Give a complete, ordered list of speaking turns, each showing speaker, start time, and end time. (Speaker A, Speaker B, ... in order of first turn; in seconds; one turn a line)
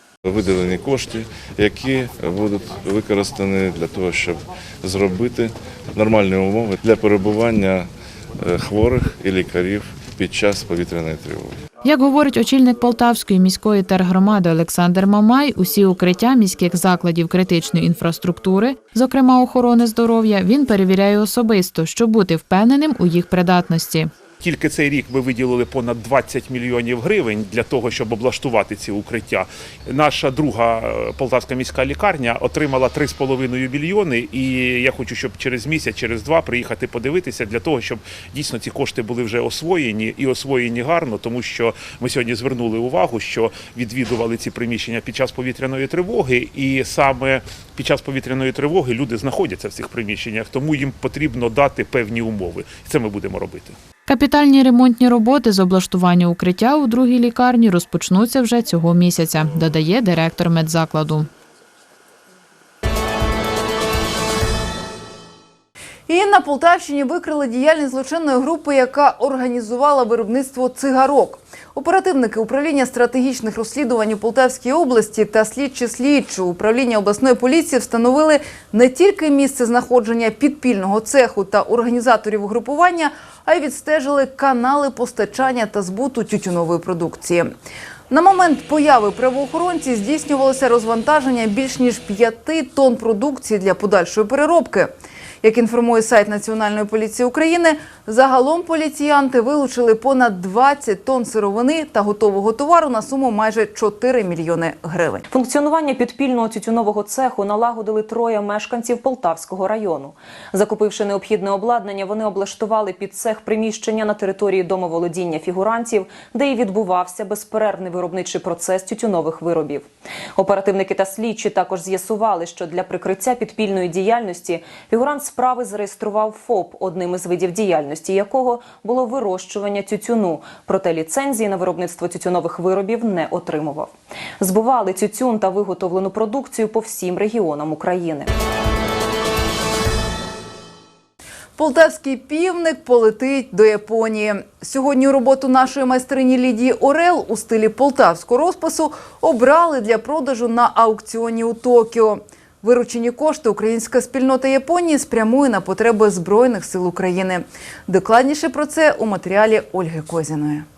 Speaker A: 0.4-4.4
Speaker A: 5.0-7.8
Speaker A: 8.5-11.5
Speaker B: 11.8-24.1
Speaker C: 24.4-53.7
Speaker B: 54.1-61.3
Speaker D: 66.1-87.5
Speaker D: 88.1-105.3
Speaker E: 105.3-138.3
Speaker D: 141.6-160.7